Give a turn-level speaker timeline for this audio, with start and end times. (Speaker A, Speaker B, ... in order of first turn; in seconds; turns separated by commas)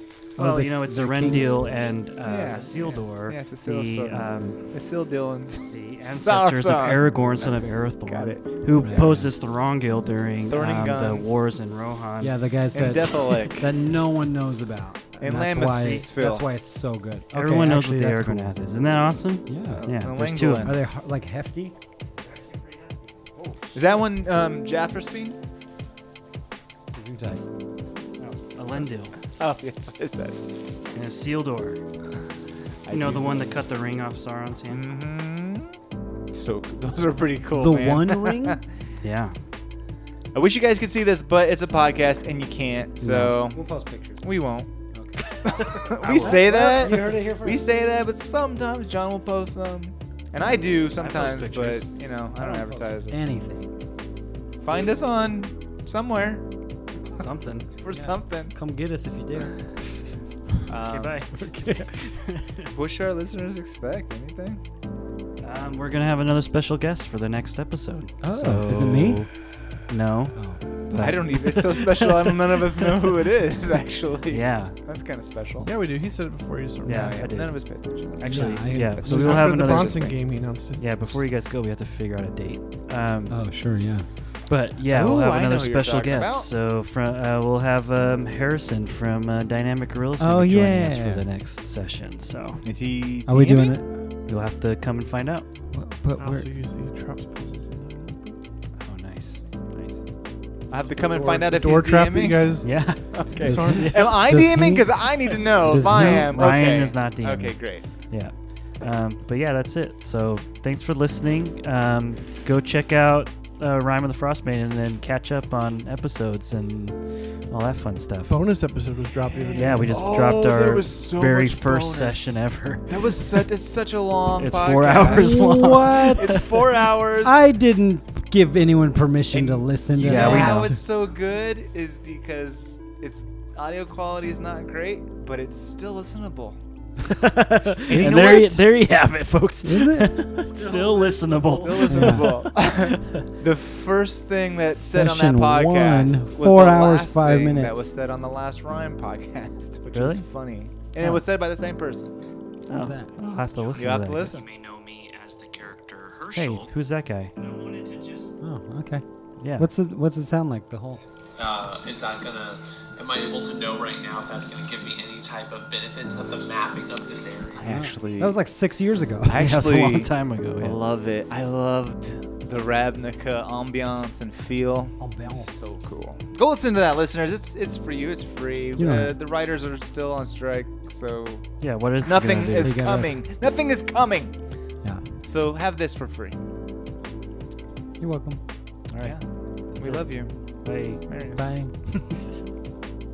Speaker A: 0.4-1.6, Speaker B: 0.4-4.6, Speaker C: 2.2-8.4, Speaker B: 5.7-12.3, Speaker A: 8.8-9.3, Speaker C: 10.5-11.2, Speaker A: 12.2-18.5, Speaker C: 12.7-13.7, Speaker C: 15.2-16.5, Speaker B: 15.7-16.1, Speaker B: 17.3-20.7, Speaker A: 19.4-19.9, Speaker C: 19.7-20.8, Speaker A: 20.6-21.7, Speaker D: 22.5-22.9, Speaker C: 23.7-25.4, Speaker A: 26.9-27.4, Speaker B: 28.2-29.1, Speaker C: 29.4-30.4, Speaker B: 30.9-31.8, Speaker C: 32.8-33.6, Speaker B: 32.9-34.8, Speaker C: 34.7-35.8, Speaker C: 36.3-38.6, Speaker A: 37.5-38.6, Speaker B: 39.0-39.3, Speaker C: 40.3-43.6, Speaker A: 43.0-44.3, Speaker C: 44.2-44.7, Speaker A: 44.9-45.2, Speaker B: 45.2-46.5, Speaker C: 45.4-53.2, Speaker A: 46.1-47.6, Speaker B: 51.0-51.9, Speaker A: 52.4-53.7, Speaker C: 54.6-56.4, Speaker B: 57.1-57.7, Speaker C: 57.8-58.5, Speaker A: 57.9-59.5, Speaker C: 60.7-61.2, Speaker B: 60.8-62.7, Speaker A: 61.3-61.9, Speaker C: 62.7-64.6, Speaker B: 65.4-72.8, Speaker A: 68.2-69.3, Speaker A: 70.3-71.0, Speaker C: 70.9-75.7, Speaker B: 74.3-74.8, Speaker E: 75.6-77.1, Speaker B: 76.8-77.6, Speaker C: 76.8-80.0, Speaker B: 78.2-83.4, Speaker A: 78.2-79.4, Speaker E: 79.0-80.9, Speaker A: 83.3-84.1, Speaker B: 84.5-92.6, Speaker C: 84.9-86.5, Speaker A: 90.2-91.2, Speaker C: 92.6-93.8, Speaker A: 93.2-94.1, Speaker B: 94.2-95.5, Speaker A: 95.7-96.5, Speaker E: 96.2-98.4, Speaker B: 98.8-100.0, Speaker C: 100.7-107.8, Speaker E: 101.0-102.7, Speaker B: 102.6-104.2, Speaker A: 103.4-106.6, Speaker E: 103.4-103.9, Speaker B: 105.8-118.4, Speaker E: 118.3-119.9, Speaker C: 119.3-127.4, Speaker B: 119.5-123.0, Speaker B: 124.3-126.4, Speaker A: 125.0-126.5, Speaker A: 127.2-130.8, Speaker C: 129.3-136.6, Speaker B: 130.0-130.7, Speaker B: 137.1-143.2, Speaker C: 137.9-138.6, Speaker A: 137.9-138.6, Speaker A: 139.6-140.2, Speaker D: 140.6-141.2, Speaker E: 140.7-141.6, Speaker C: 141.4-152.1, Speaker A: 141.9-142.5, Speaker A: 144.6-147.8, Speaker B: 149.9-150.2, Speaker B: 152.7-154.4, Speaker A: 152.7-153.1, Speaker D: 153.6-156.7, Speaker C: 153.7-154.5, Speaker B: 156.3-157.3, Speaker D: 157.4-158.3, Speaker A: 158.4-159.0, Speaker B: 159.4-159.7, Speaker A: 159.6-161.0, Speaker D: 161.4-167.7, Speaker C: 167.6-168.3, Speaker A: 167.6-169.5, Speaker B: 169.2-170.8, Speaker C: 169.3-184.4, Speaker A: 175.0-175.5, Speaker A: 178.8-179.2, Speaker B: 181.6-182.8, Speaker A: 182.2-183.2, Speaker C: 185.2-186.3, Speaker A: 188.0-188.4, Speaker B: 188.9-191.0, Speaker C: 189.0-190.3, Speaker C: 190.9-191.4, Speaker A: 191.3-192.2